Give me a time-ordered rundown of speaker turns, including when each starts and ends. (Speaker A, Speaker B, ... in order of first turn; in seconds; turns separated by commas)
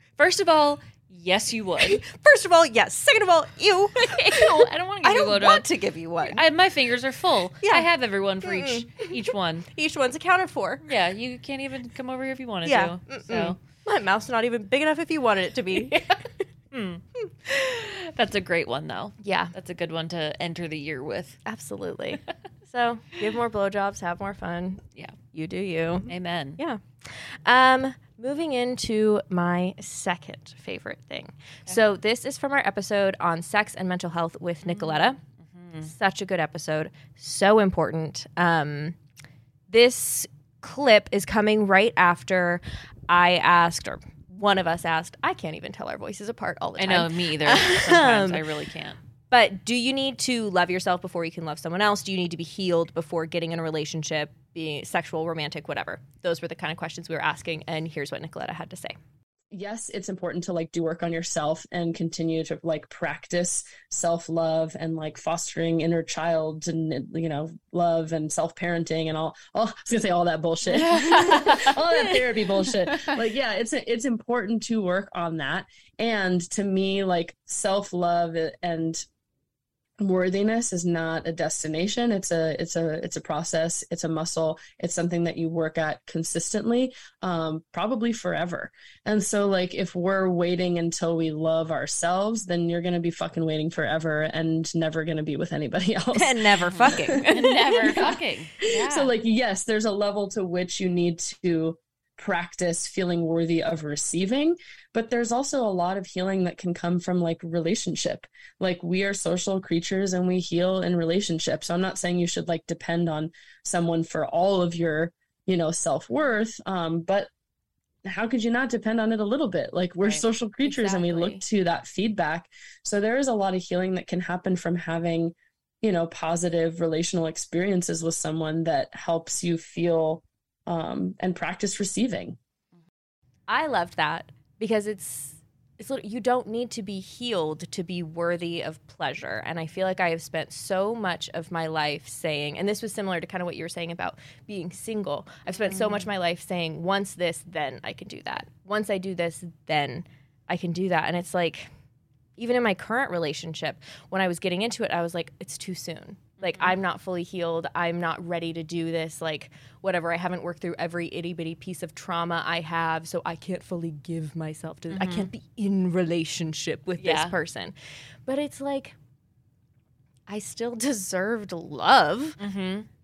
Speaker A: 0.2-2.0, Speaker B: 1.8-6.4, Speaker A: 4.0-5.7, Speaker A: 6.2-9.7, Speaker B: 8.4-9.2, Speaker B: 9.7-10.9, Speaker A: 10.8-13.6, Speaker B: 12.7-16.0, Speaker A: 15.8-21.4, Speaker B: 19.2-19.5, Speaker B: 21.5-35.2, Speaker A: 26.1-26.6, Speaker A: 34.6-35.9, Speaker B: 35.8-39.0, Speaker B: 39.7-48.4, Speaker A: 46.8-49.0, Speaker B: 49.3-59.0, Speaker C: 59.5-79.0, Speaker A: 70.7-71.8, Speaker B: 70.9-71.6, Speaker A: 72.9-73.2, Speaker C: 80.0-117.3, Speaker B: 96.2-98.2, Speaker A: 96.7-99.1, Speaker C: 118.0-132.4, Speaker A: 120.8-121.3, Speaker B: 120.8-121.3, Speaker B: 133.5-151.7, Speaker A: 145.5-146.1, Speaker B: 152.4-167.8, Speaker A: 156.4-156.8, Speaker A: 164.9-165.3, Speaker A: 167.0-167.3, Speaker B: 168.3-168.9, Speaker B: 170.3-172.4, Speaker A: 172.4-172.9